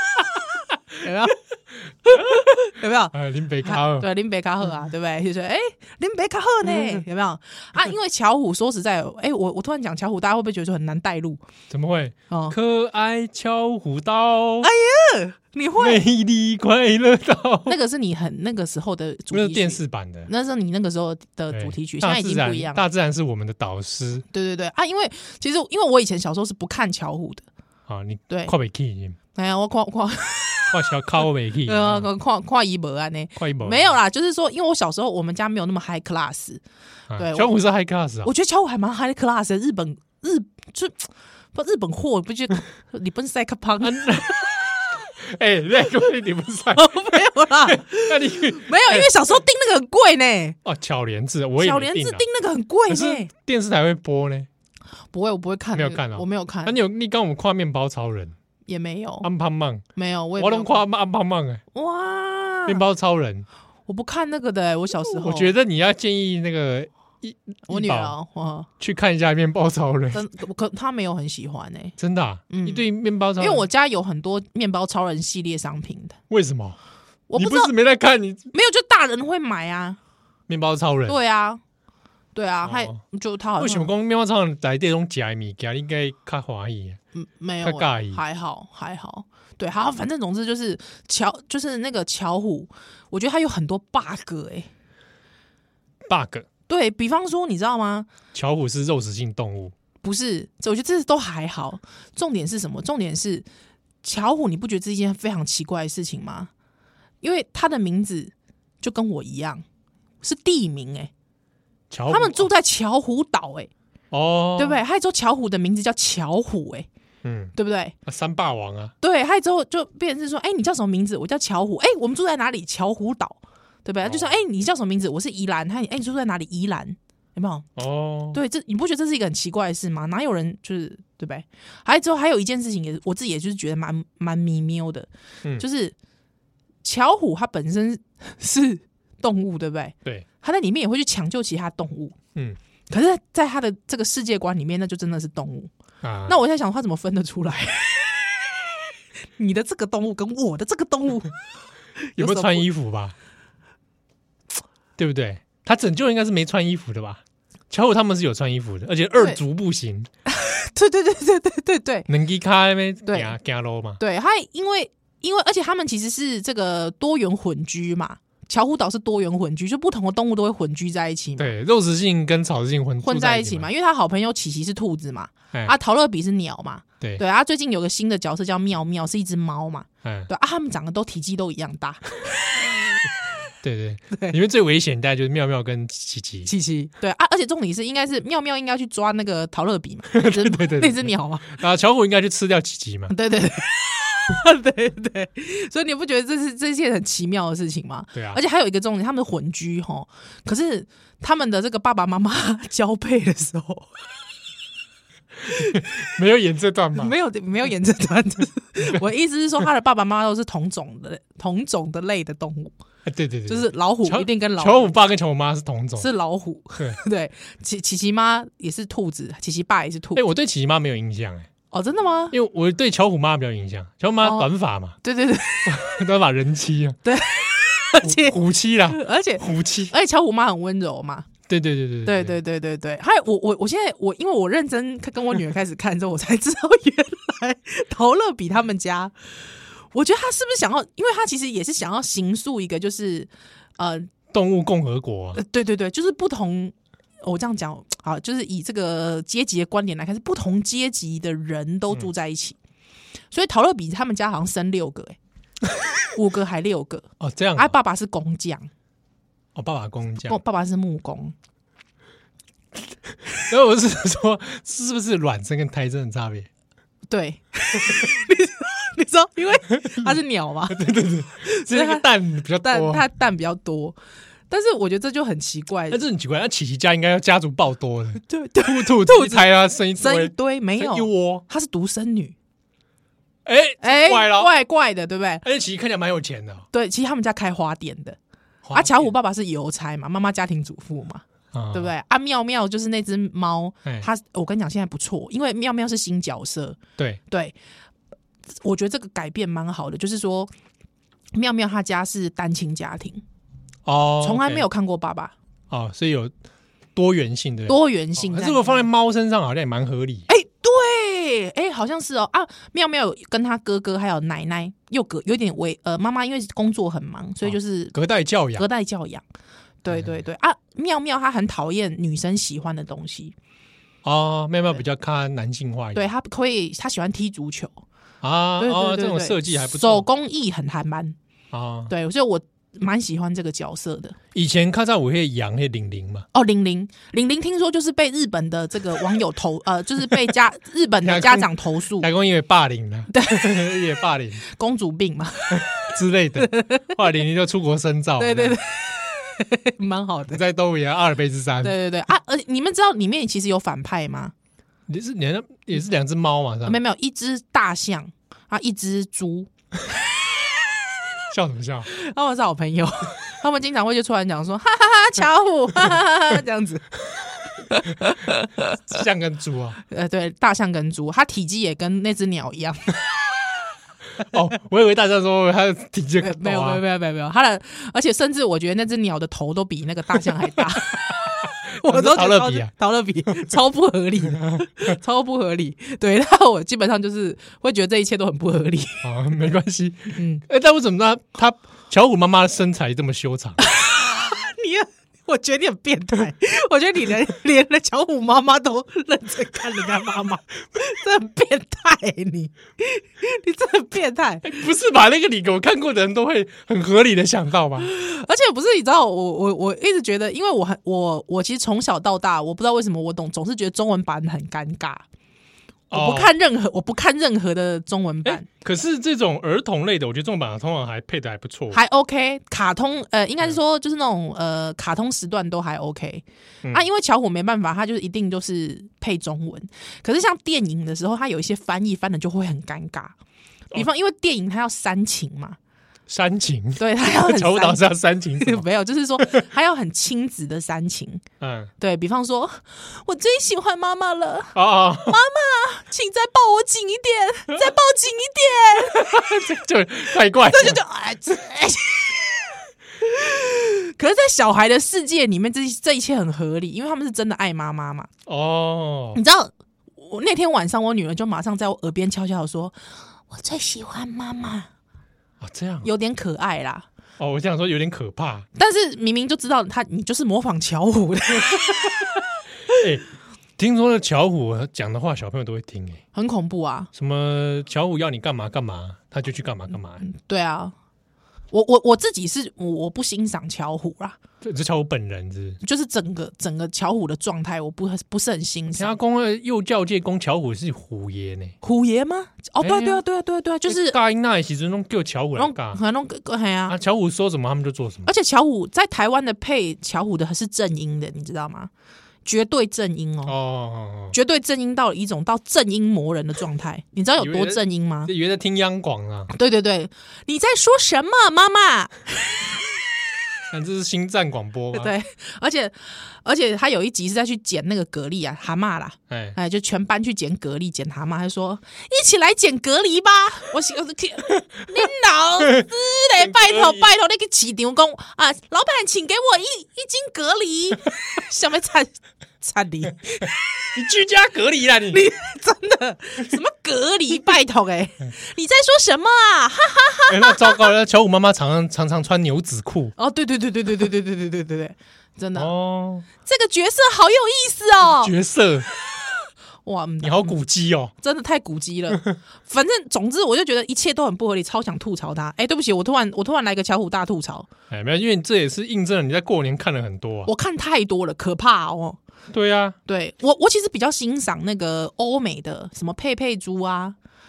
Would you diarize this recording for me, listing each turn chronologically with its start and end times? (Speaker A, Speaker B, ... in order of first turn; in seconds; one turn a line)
Speaker A: 1.0-1.4
Speaker A: 2.0-11.4
Speaker B: 2.1-2.4
Speaker B: 3.1-4.1
Speaker B: 11.7-14.7
Speaker A: 12.3-12.6
Speaker A: 14.6-16.0
Speaker B: 15.8-17.8
Speaker A: 17.7-22.8
Speaker B: 19.3-20.3
Speaker B: 21.5-24.2
Speaker A: 24.3-27.4
Speaker B: 27.9-29.2
Speaker A: 29.3-30.8
Speaker B: 30.7-32.1
Speaker A: 31.6-36.6
Speaker B: 33.4-33.9
Speaker B: 37.1-38.3
Speaker A: 37.1-37.6
Speaker A: 38.2-44.2
Speaker B: 43.8-49.1
Speaker A: 46.7-50.6
Speaker B: 50.6-52.2
Speaker A: 51.6-53.3
Speaker B: 52.9-54.5
Speaker A: 55.1-56.8
Speaker B: 55.7-58.3
Speaker A: 58.6-59.3
Speaker B: 59.2-59.8
Speaker A: 60.0-60.8
Speaker B: 60.4-61.6
Speaker A: 61.7-62.8
Speaker B: 62.7-63.5
Speaker A: 63.9-65.5
Speaker B: 65.0-68.1
Speaker A: 67.7-68.7
Speaker B: 68.8-70.2
Speaker A: 70.1-72.0
Speaker B: 72.0-73.6
Speaker A: 72.5-76.2
Speaker B: 76.3-76.8
Speaker A: 77.3-77.7
Speaker B: 77.3-78.5
Speaker A: 78.5-80.0
Speaker B: 80.5-81.2
Speaker A: 81.1-81.6
Speaker A: 82.3-83.9
Speaker B: 82.6-83.0
Speaker B: 83.6-87.0
Speaker A: 87.1-94.7
Speaker B: 87.6-88.2
Speaker B: 96.0-96.5
Speaker A: 96.7-98.1
Speaker B: 98.3-99.7
Speaker A: 100.0-103.4
Speaker A: 104.0-106.5
Speaker A: 107.2-109.6
Speaker A: 110.2-111.1
Speaker B: 111.9-112.5
Speaker A: 112.1-113.7
Speaker B: 114.1-114.8
Speaker A: 114.6-116.9
Speaker B: 117.2-117.5
Speaker A: 117.5-117.9
Speaker B: 118.0-118.9
Speaker A: 119.0-127.7
Speaker B: 124.0-124.4
Speaker B: 127.8-128.4
Speaker A: 128.3-135.9
Speaker A: 136.8-142.2
Speaker A: 142.9-145.7
Speaker B: 146.0-146.4
Speaker A: 146.2-148.6
Speaker A: 149.4-151.3
Speaker A: 152.0-152.7
Speaker B: 152.2-153.1
Speaker B: 155.0-160.1
Speaker A: 160.3-162.1
Speaker B: 162.1-164.0
Speaker A: 163.1-163.3
Speaker A: 164.0-171.5
Speaker B: 171.4-173.7
Speaker A: 173.0-182.6
Speaker B: 180.0-180.3
Speaker B: 183.6-186.5
Speaker A: 186.4-191.5
Speaker B: 190.1-193.1
Speaker A: 193.1-204.0
Speaker B: 198.1-198.4
Speaker B: 205.5-207.1
Speaker A: 205.5-205.9
Speaker A: 206.9-212.7
Speaker B: 213.1-216.1
Speaker A: 213.5-214.9
Speaker A: 216.0-220.2
Speaker B: 220.1-221.5
Speaker A: 221.7-222.3
Speaker B: 222.3-224.9
Speaker A: 224.2-224.5
Speaker A: 225.0-226.0
Speaker B: 225.7-227.0
Speaker A: 227.0-228.4
Speaker B: 228.0-229.9
Speaker A: 228.9-231.3
Speaker B: 231.5-232.4
Speaker A: 232.0-239.1
Speaker A: 239.9-244.1
Speaker B: 244.3-245.4
Speaker A: 245.3-252.6
Speaker A: 253.3-255.2
Speaker A: 256.1-258.7
Speaker B: 257.2-257.7
Speaker B: 259.5-260.4
Speaker A: 260.3-261.3
Speaker B: 263.4-266.5
Speaker A: 267.1-272.1
Speaker B: 269.8-270.2
Speaker B: 270.7-273.1
Speaker A: 272.6-273.9
Speaker A: 274.5-276.0
Speaker B: 275.9-281.4
Speaker A: 278.2-282.3
Speaker B: 283.4-284.5
Speaker A: 283.8-285.4
Speaker B: 285.4-286.6
Speaker A: 286.7-288.2
Speaker B: 288.6-289.1
Speaker A: 288.7-296.8
Speaker B: 291.5-291.9
Speaker A: 297.3-297.5
Speaker A: 298.6-300.5
Speaker A: 301.3-303.2
Speaker B: 303.8-304.6
Speaker A: 304.2-305.3
Speaker B: 305.7-306.3
Speaker B: 306.9-310.3
Speaker A: 307.7-308.9
Speaker A: 310.3-317.9
Speaker B: 317.4-318.7
Speaker A: 318.6-319.2
Speaker A: 319.8-323.3
Speaker B: 319.9-320.2
Speaker B: 324.0-326.1
Speaker A: 325.9-327.8
Speaker B: 328.2-330.1
Speaker A: 328.6-331.1
Speaker B: 331.5-331.9
Speaker A: 331.9-334.1
Speaker B: 334.3-336.3
Speaker A: 336.3-342.1
Speaker B: 341.0-344.4
Speaker A: 343.1-343.7
Speaker A: 344.4-345.7
Speaker B: 345.5-348.6
Speaker A: 346.4-346.9
Speaker A: 348.2-350.4
Speaker B: 350.3-351.7
Speaker A: 351.6-354.3
Speaker B: 354.9-356.8
Speaker A: 356.6-359.5
Speaker B: 361.3-361.9
Speaker A: 361.9-366.9
Speaker B: 368.9-369.8
Speaker A: 369.9-372.9
Speaker B: 374.2-376.8
Speaker A: 376.2-389.0
Speaker B: 381.8-382.7
Speaker B: 384.3-384.7
Speaker B: 389.0-393.6
Speaker A: 390.1-390.4
Speaker A: 393.6-404.5
Speaker B: 404.4-407.9
Speaker A: 407.8-415.0
Speaker B: 415.9-416.3
Speaker A: 415.9-418.5
Speaker B: 418.2-421.8
Speaker A: 421.7-433.1
Speaker A: 433.7-435.6
Speaker B: 436.1-438.6
Speaker A: 436.8-437.8
Speaker A: 438.4-441.2
Speaker B: 441.4-441.7
Speaker A: 441.8-449.2
Speaker B: 444.5-445.2
Speaker B: 448.8-450.8
Speaker A: 450.4-458.1
Speaker B: 458.2-459.2
Speaker A: 459.1-462.7
Speaker A: 463.3-464.7
Speaker B: 465.4-465.9
Speaker A: 465.8-466.9
Speaker B: 467.2-468.4
Speaker A: 468.6-472.2
Speaker B: 472.7-473.0
Speaker B: 473.6-476.0
Speaker A: 476.1-476.9
Speaker B: 476.9-480.0
Speaker A: 480.0-480.7
Speaker A: 481.5-484.2
Speaker B: 484.4-485.6
Speaker A: 485.6-488.9
Speaker B: 488.7-491.6
Speaker A: 491.6-494.0
Speaker B: 492.6-493.0
Speaker B: 493.6-495.8
Speaker A: 495.4-496.8
Speaker B: 496.7-498.1
Speaker A: 498.0-501.7
Speaker A: 502.2-503.3
Speaker B: 503.2-504.1
Speaker A: 504.1-508.1
Speaker B: 507.2-509.3
Speaker A: 509.3-512.6
Speaker B: 513.5-514.9
Speaker A: 514.7-533.3
Speaker B: 519.1-519.4
Speaker B: 526.2-526.9
Speaker B: 533.7-535.1
Speaker A: 534.9-540.7
Speaker B: 540.1-542.9
Speaker A: 543.0-545.5
Speaker B: 545.4-546.0
Speaker A: 546.2-548.1
Speaker B: 547.9-548.7
Speaker A: 549.6-550.4
Speaker B: 550.0-550.9
Speaker A: 551.0-557.5
Speaker B: 557.7-560.3
Speaker A: 560.2-562.0
Speaker B: 562.3-562.8
Speaker A: 562.9-567.0